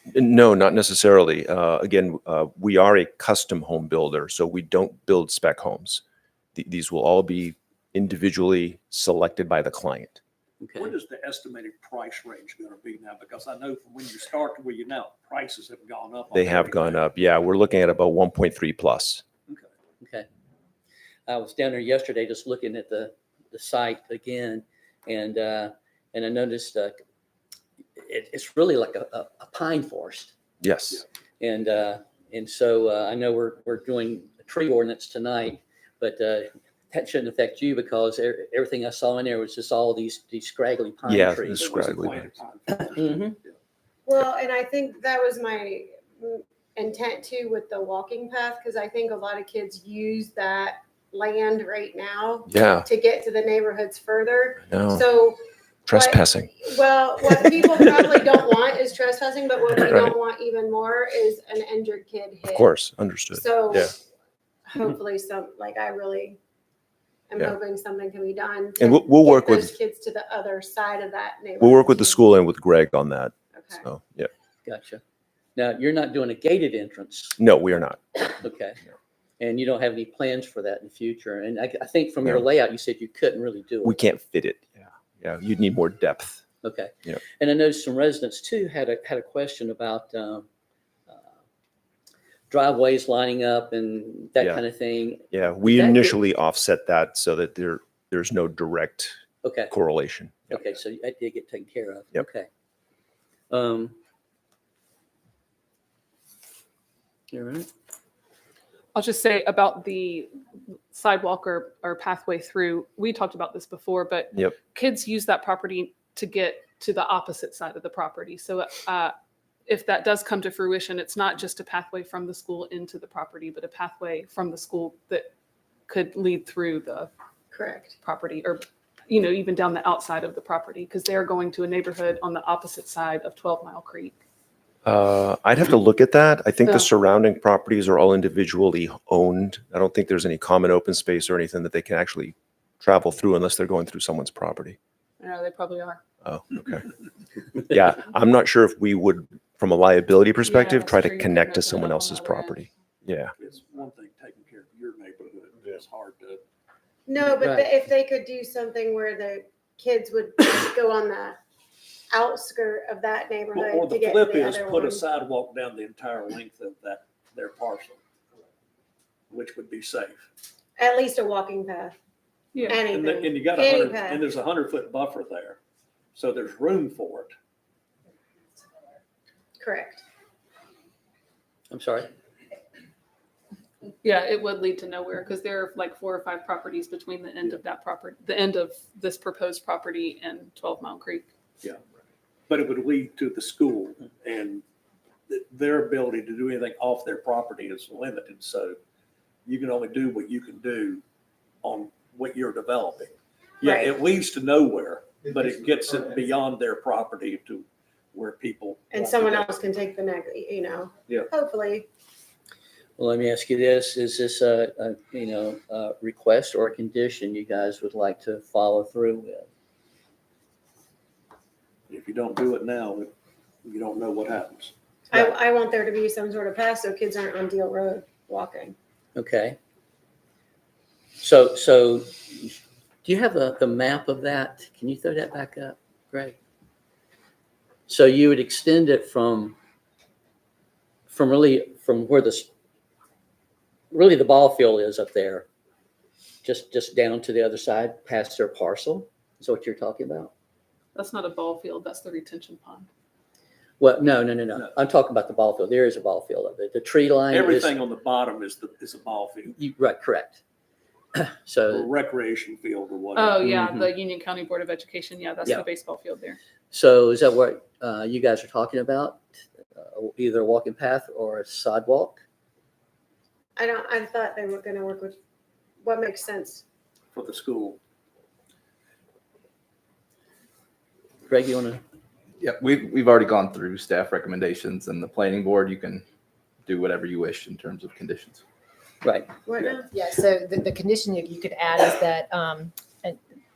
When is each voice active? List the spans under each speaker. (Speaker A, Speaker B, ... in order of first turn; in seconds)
Speaker A: 0.1-6.0, 6.6-10.2, 16.3-19.2, 30.6-31.0, 41.1-42.3, 52.5-52.9, 54.7-55.1, 55.9-56.5, 62.5-63.9, 68.8-69.7, 71.6-74.3, 77.4-78.2, 83.8-86.4, 95.3-99.2, 99.7-100.7, 134.8-144.8, 146.2-146.9, 147.6-153.3
Speaker B: 10.6-10.9, 20.0-20.3, 21.3-27.0, 28.0-30.3, 31.4-41.7, 42.7-43.4, 74.7-75.0, 75.6-77.4, 78.3-78.8, 79.4-83.9, 86.6-90.5, 92.5-96.2, 99.4-99.7, 100.5-102.5, 103.5-104.0, 107.3-107.7, 157.2-157.7, 181.7-182.1, 213.0-219.5, 229.2-229.6, 231.2-236.4, 237.9-239.6, 241.1-242.5, 243.9-245.5, 246.4-250.3, 253.8-257.8, 259.6-260.4, 261.1-261.9, 263.4-263.9, 266.7-269.2, 269.8-272.2, 281.3-281.8, 289.0-289.3
Speaker C: 10.8-16.9, 41.6-43.5, 153.4-156.4, 163.7-168.0, 169.3-170.3, 173.3-175.6, 176.2-177.3, 192.5-194.6, 195.3-198.8, 199.5-201.0, 201.6-203.1, 203.8-209.3, 221.9-223.1, 223.6-224.7, 257.3-259.6, 261.7-263.3, 277.1-277.8
Speaker D: 44.1-62.7, 63.3-63.9, 64.7-66.4, 67.3-72.2, 73.5-73.8, 127.5-128.0, 157.1-161.4, 162.1-165.1, 170.8-171.9, 172.7-174.2, 179.6-180.0, 203.6-204.0, 208.9-211.9, 225.1-228.8, 273.6-275.2, 275.8-276.6, 289.5-289.9
Speaker E: 109.0-110.3, 110.9-119.1, 119.7-125.3, 125.9-127.1, 128.0-134.2, 145.2-146.0, 150.4-152.6, 172.5-172.8, 184.0-191.3, 250.9-252.9, 263.2-266.4
Speaker F: 282.4-286.0, 286.6-288.4
Speaker G: 289.9-293.2